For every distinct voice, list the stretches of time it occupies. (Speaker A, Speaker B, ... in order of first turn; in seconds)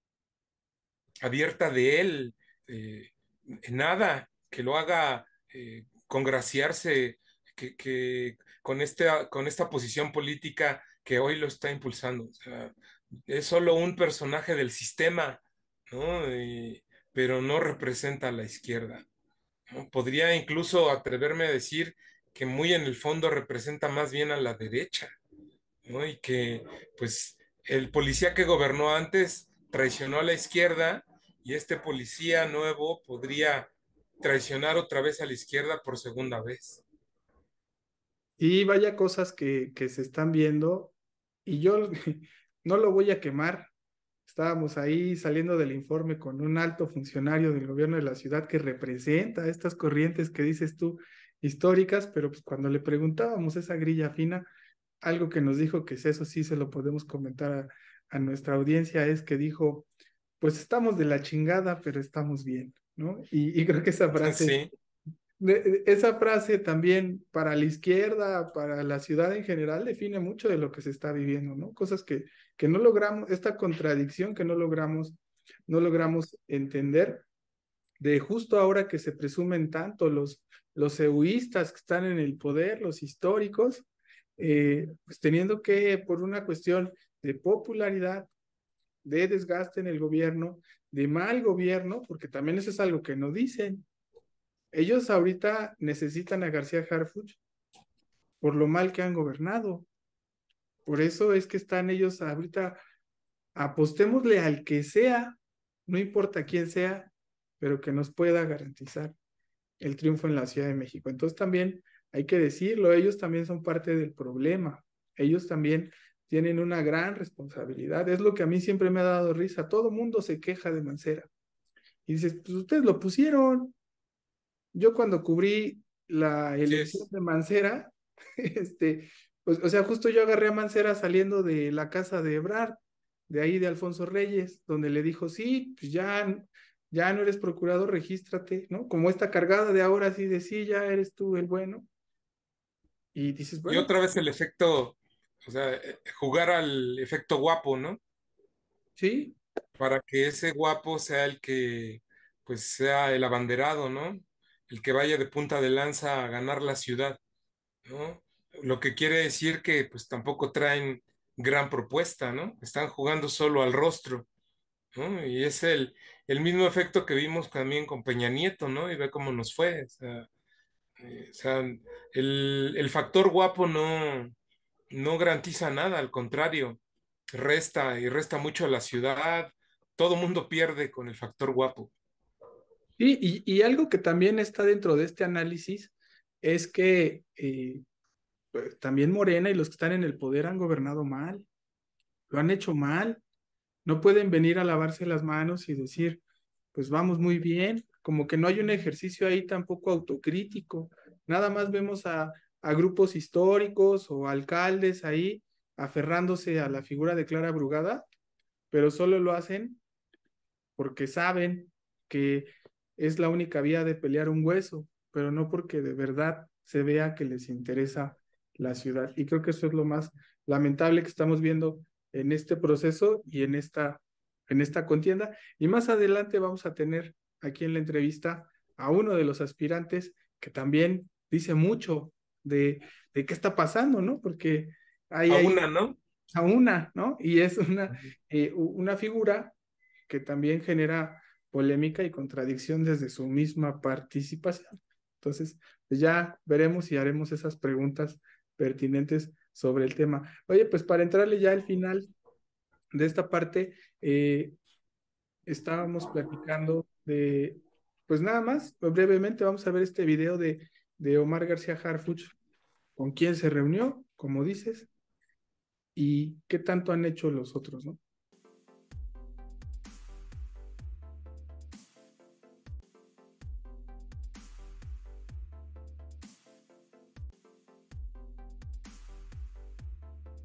Speaker A: 1.2-12.7, 13.3-19.0, 19.7-25.1, 25.9-33.7, 34.2-36.8, 64.2-64.7, 126.7-127.1, 143.7-148.0, 149.8-157.2, 157.8-164.3, 164.9-170.3, 171.0-174.3, 174.9-176.8, 177.3-181.9, 235.3-236.0
Speaker B: 38.4-43.7, 44.3-54.5, 55.0-59.9, 60.4-64.6, 65.4-77.2, 78.0-83.8, 84.4-88.3, 89.0-93.8, 94.7-97.4, 98.4-99.9, 100.8-102.8, 103.5-109.1, 109.8-121.3, 122.0-123.7, 124.7-141.9, 143.1-143.9, 149.0-149.4, 183.0-187.8, 188.5-191.5, 192.3-193.2, 193.8-196.2, 196.7-208.0, 208.7-209.8, 210.8-235.6, 236.3-239.5, 240.1-252.1, 252.9-254.5, 255.5-262.3, 263.0-264.9, 265.9-268.0